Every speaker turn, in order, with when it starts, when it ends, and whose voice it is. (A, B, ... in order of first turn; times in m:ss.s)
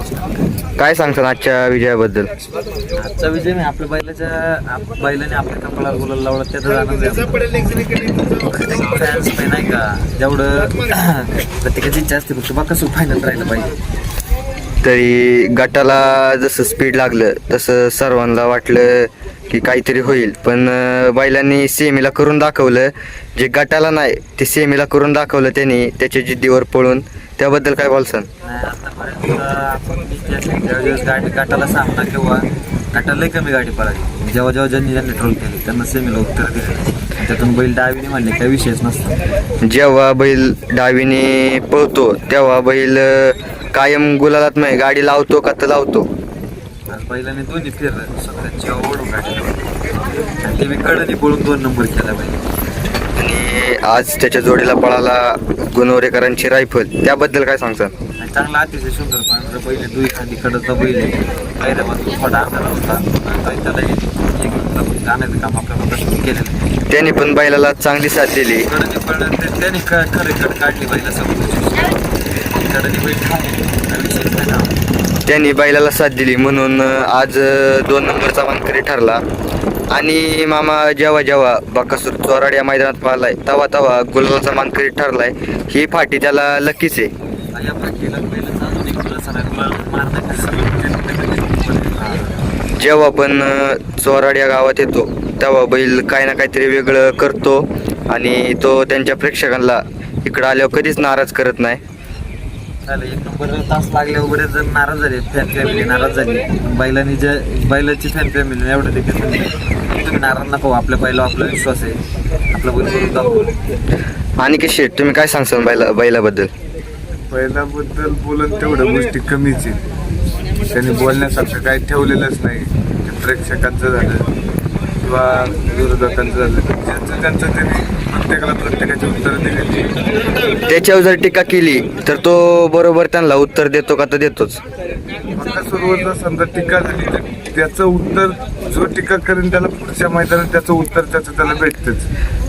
0:00.8-0:02.3 A
0:02.9-0:13.8 B
0:14.8-0:28.3 A
0:28.4-0:39.2 B
0:39.6-0:46.1 A
0:46.9-0:49.6 B
0:50.4-0:52.4 B
0:53.2-0:57.9 A
0:58.2-1:06.7 B
1:06.9-1:08.7 A
1:08.5-1:14.8 B
1:15.2-1:19.2 A
1:19.9-1:27.1 A
1:27.5-1:32.4 B
1:32.8-1:41.8 A
1:42.8-1:53.6 B
1:54.4-1:56.5 A
1:57.3-1:59.8 C
2:00.7-2:04.3 C
2:05.0-2:09.9 C
2:10.7-2:14.6 A
2:15.3-2:22.1 C